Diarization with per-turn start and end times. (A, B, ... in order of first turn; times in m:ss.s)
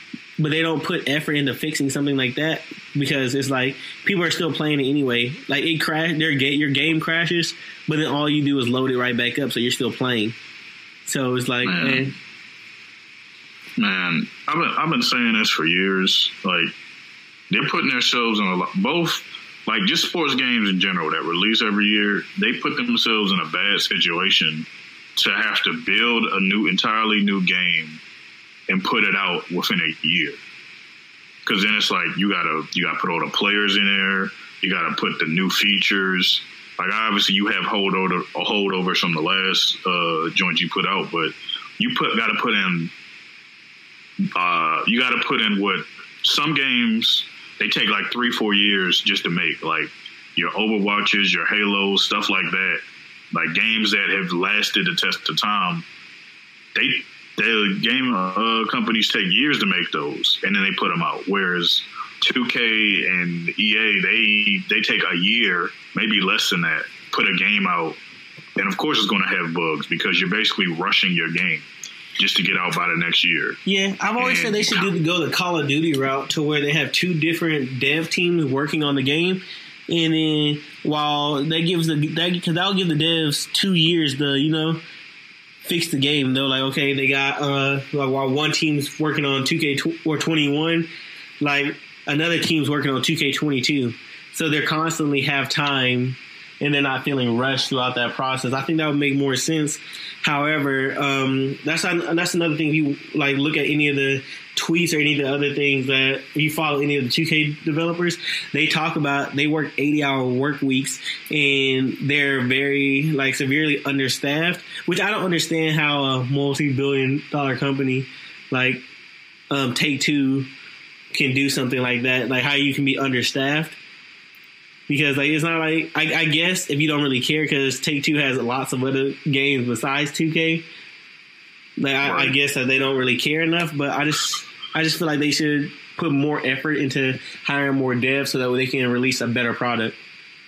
0:00.4-0:10.4 A
0:11.1-0:12.1 A
0:11.6-0:12.1 B
0:13.8-0:16.7 B
0:17.5-0:28.0 B
0:28.7-0:30.4 B
0:31.5-0:42.9 B
0:44.4-0:55.8 B
0:56.8-1:08.0 B
1:08.6-1:11.7 B
1:12.2-1:13.6 B
1:13.7-1:24.8 A
1:14.2-1:14.9 B
1:25.6-1:30.9 A
1:31.4-1:58.8 A
1:59.5-2:00.5 A
2:01.1-2:03.8 A
2:04.9-2:10.6 A
2:11.8-2:20.0 A
2:12.0-2:12.4 B